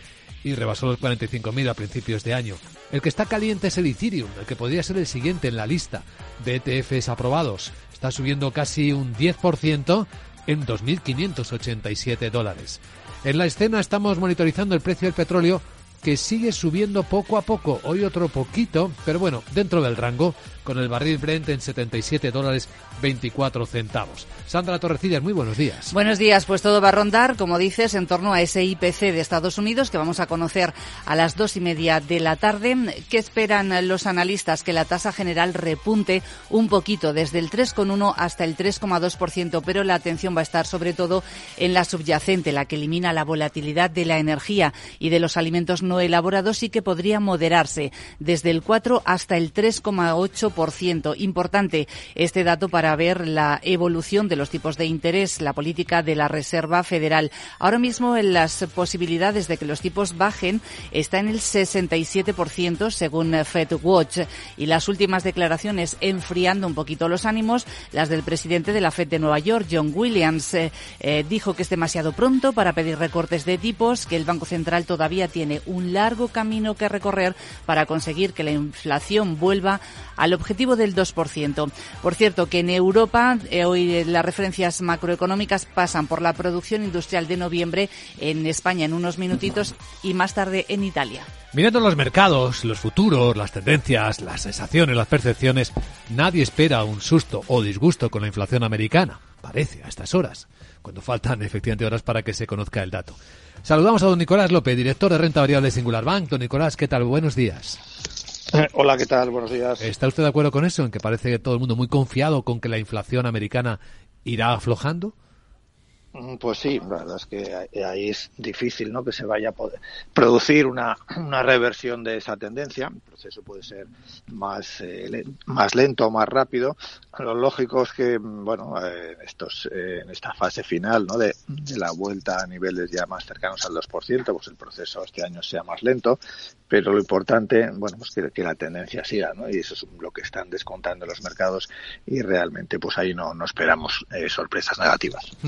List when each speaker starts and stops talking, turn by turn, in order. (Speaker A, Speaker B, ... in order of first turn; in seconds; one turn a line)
Speaker A: 0.4-25.9
Speaker B: 25.9-91.3
Speaker A: 91.5-107.8
Speaker C: 108.5-109.9
Speaker A: 109.8-115.1
Speaker C: 116.1-136.2
Speaker C: 136.7-145.3